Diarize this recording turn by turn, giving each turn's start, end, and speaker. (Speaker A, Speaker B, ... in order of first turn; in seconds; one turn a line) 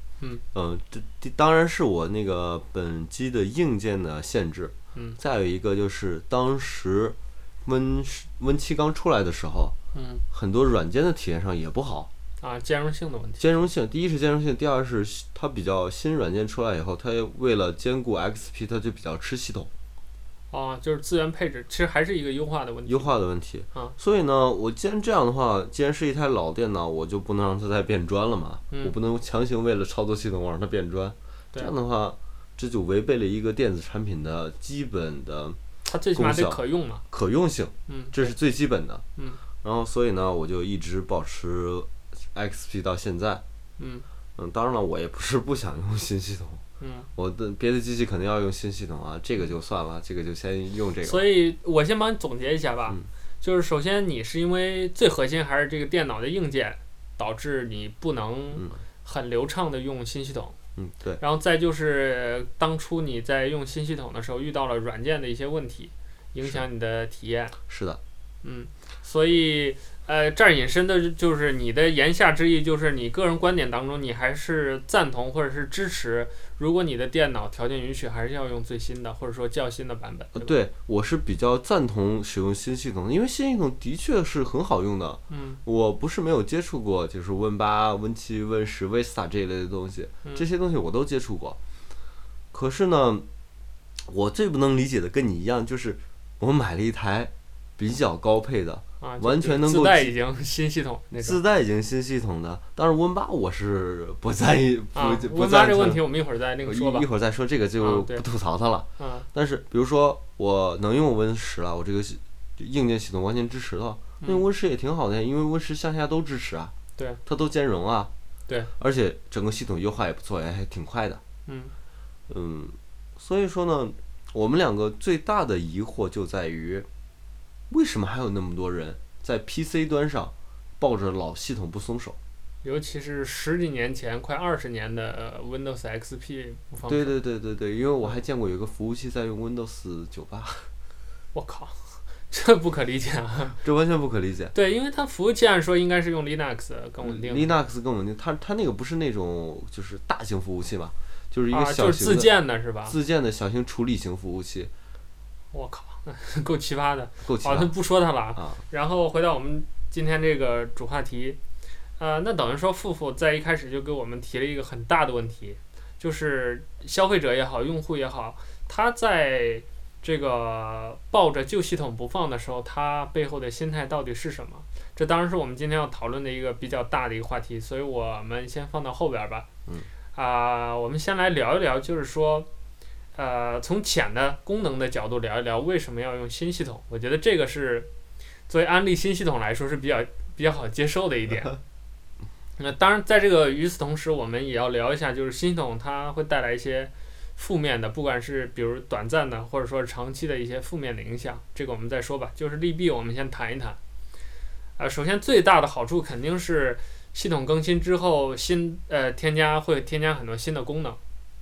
Speaker A: 0.5-9.7
Speaker B: 9.9-10.2
Speaker A: 10.3-12.1
Speaker B: 12.4-13.4
Speaker A: 13.4-19.7
Speaker B: 20.5-23.1
Speaker A: 22.9-35.6
Speaker B: 35.8-37.0
Speaker A: 36.1-39.0
Speaker B: 37.9-38.3
Speaker A: 39.6-43.4
Speaker B: 43.8-44.0
Speaker A: 44.4-46.6
Speaker B: 46.8-47.1
Speaker A: 47.1-51.2
Speaker B: 51.0-60.5
Speaker A: 58.5-58.8
Speaker A: 60.8-61.2
Speaker B: 61.2-67.5
Speaker A: 67.7-68.0
Speaker B: 68.4-80.5
Speaker A: 80.3-91.6
Speaker B: 85.3-85.6
Speaker A: 92.5-93.2
Speaker A: 94.1-100.1
Speaker B: 99.0-101.4
Speaker A: 101.2-106.0
Speaker B: 104.9-107.1
Speaker A: 106.6-116.7
Speaker B: 107.8-108.2
Speaker B: 109.0-109.3
Speaker A: 117.2-118.1
Speaker A: 118.8-121.2
Speaker B: 121.5-121.7
Speaker A: 122.3-126.9
Speaker A: 127.7-132.2
Speaker B: 132.6-137.1
Speaker A: 136.8-140.7
Speaker B: 141.3-143.6
Speaker A: 143.6-144.5
Speaker B: 144.5-147.5
Speaker A: 147.0-152.3
Speaker B: 151.5-152.9
Speaker A: 152.8-154.7
Speaker B: 155.5-161.4
Speaker A: 157.2-157.7
Speaker A: 158.3-158.6
Speaker B: 162.0-179.4
Speaker B: 180.1-182.5
Speaker B: 183.1-187.9
Speaker B: 188.5-191.6
Speaker B: 192.6-203.8
Speaker B: 204.8-211.0